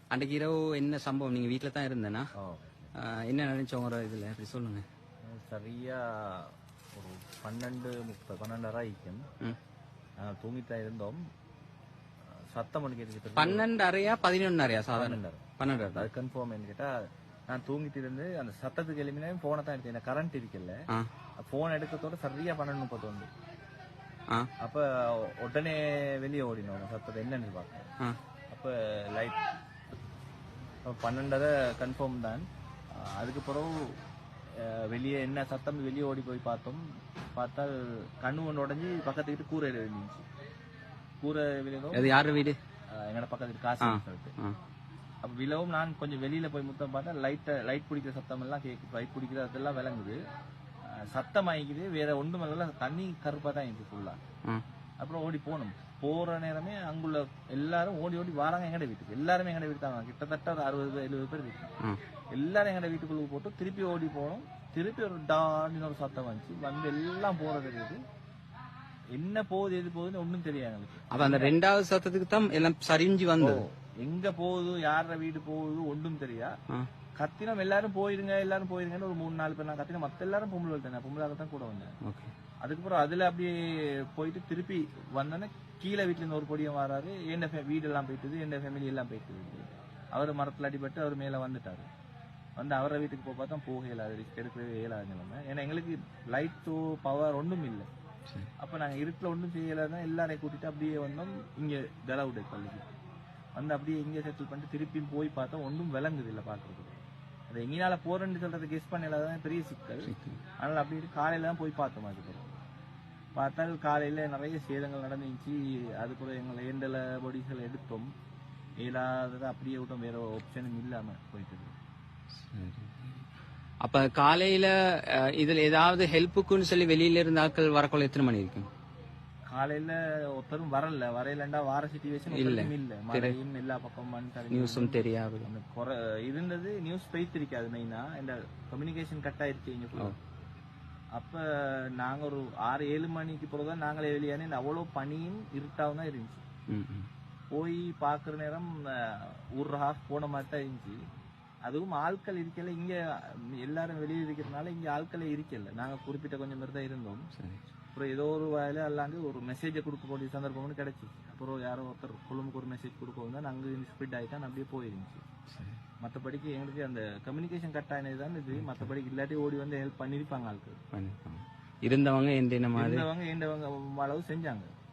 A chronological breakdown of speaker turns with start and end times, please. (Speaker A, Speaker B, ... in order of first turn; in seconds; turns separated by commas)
Speaker A: 0.1-2.3, Speaker B: 2.4-2.9, Speaker A: 2.9-4.8, Speaker B: 5.2-9.2, Speaker B: 10.2-11.2, Speaker B: 12.5-13.7, Speaker A: 13.3-16.1, Speaker B: 14.9-16.9, Speaker B: 17.5-20.8, Speaker B: 21.4-23.3, Speaker B: 24.6-27.9, Speaker B: 28.5-29.4, Speaker B: 30.9-32.5, Speaker B: 33.0-33.8, Speaker B: 34.6-36.8, Speaker B: 37.4-40.2, Speaker B: 41.2-42.2, Speaker A: 41.9-42.6, Speaker B: 42.9-44.3, Speaker A: 43.8-44.5, Speaker B: 45.2-50.2, Speaker B: 51.1-54.2, Speaker B: 55.0-61.7, Speaker B: 62.3-68.0, Speaker B: 69.2-71.5, Speaker A: 71.1-73.6, Speaker B: 73.4-76.5, Speaker B: 77.2-81.9, Speaker A: 82.0-82.3, Speaker B: 82.6-91.9, Speaker B: 92.6-97.9, Speaker B: 98.6-102.8, Speaker B: 103.5-112.6, Speaker A: 110.0-110.4, Speaker B: 113.3-118.1, Speaker B: 118.8-121.7, Speaker A: 122.5-123.2, Speaker A: 123.8-128.7, Speaker B: 129.5-140.2, Speaker A: 132.3-133.3, Speaker A: 134.5-135.5, Speaker B: 141.2-146.4, Speaker A: 146.7-147.1, Speaker B: 147.5-151.0, Speaker B: 151.7-157.2, Speaker A: 157.3-157.6, Speaker B: 157.9-165.2, Speaker A: 165.5-165.8, Speaker B: 166.0-170.8, Speaker A: 168.5-168.9, Speaker A: 170.9-173.0, Speaker B: 172.7-174.7